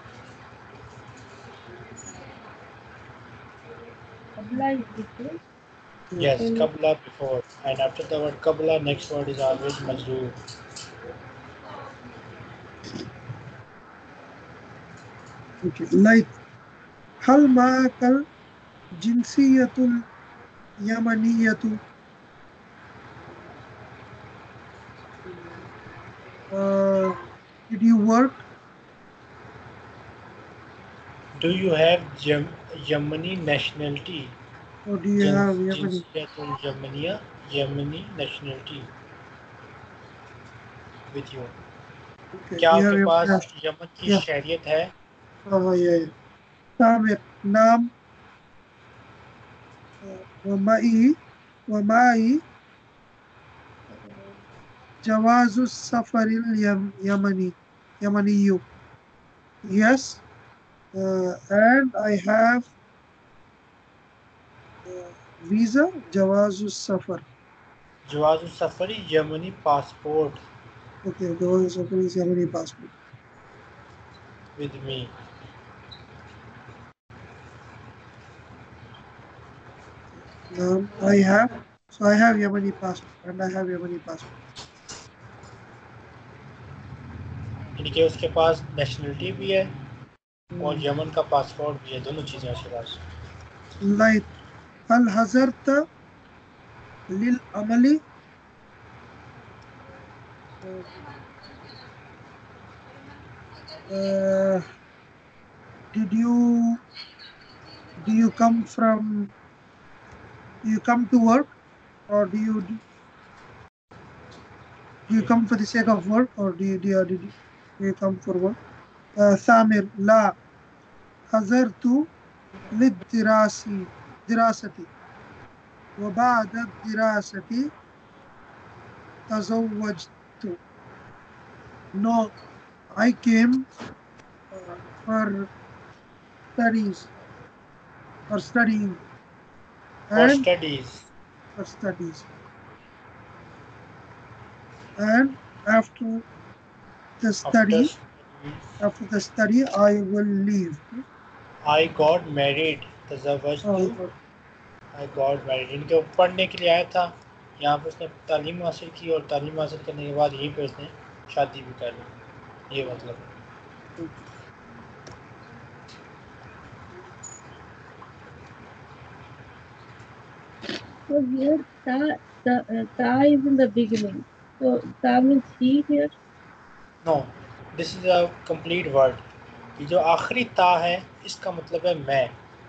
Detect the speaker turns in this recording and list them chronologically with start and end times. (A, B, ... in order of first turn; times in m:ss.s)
0:04.4-0:05.4 A
0:06.2-0:10.3 B
0:06.4-0:06.7 A
0:15.6-0:16.3 C
0:17.2-0:18.2 C
0:19.0-0:20.0 C
0:20.8-0:21.8 C
0:26.5-0:28.4 C
0:31.4-0:34.3 B
0:34.8-0:36.0 C
0:35.2-0:38.9 B
0:41.1-0:41.5 B
0:42.3-0:43.4 C
0:42.6-0:44.9 B
0:45.5-0:46.1 C
0:46.8-0:47.9 C
0:50.0-0:51.2 C
0:51.7-0:52.4 C
0:55.0-0:58.6 C
0:59.6-1:00.2 C
1:00.9-1:02.7 C
1:04.9-1:07.2 C
1:08.1-1:10.4 B
1:11.0-1:12.9 C
1:14.6-1:15.1 B
1:20.5-1:24.3 C
1:27.8-1:29.7 B
1:30.5-1:30.8 C
1:30.6-1:33.0 B
1:33.8-1:34.3 C
1:34.9-1:35.8 C
1:37.1-1:38.0 C
1:43.9-1:44.6 C
1:45.9-1:46.8 C
1:48.0-1:49.3 C
1:50.6-1:51.5 C
1:52.1-1:52.8 C
1:55.1-1:58.6 C
1:59.2-2:00.4 C
2:01.3-2:02.1 C
2:02.7-2:04.9 C
2:06.0-2:07.7 C
2:09.3-2:10.6 C
2:12.0-2:12.3 C
2:12.9-2:13.7 C
2:14.5-2:15.5 C
2:16.6-2:17.1 C
2:18.3-2:19.0 C
2:20.1-2:20.4 C
2:20.1-2:21.1 B
2:21.6-2:22.3 C
2:25.0-2:26.2 C
2:27.2-2:27.9 C
2:27.4-2:28.8 B
2:28.8-2:31.0 C
2:31.6-2:34.0 B
2:33.6-2:34.1 C
2:34.9-2:42.1 B
2:42.7-2:43.2 B
2:51.1-2:56.1 A
2:57.0-2:59.2 B
2:59.8-3:02.3 B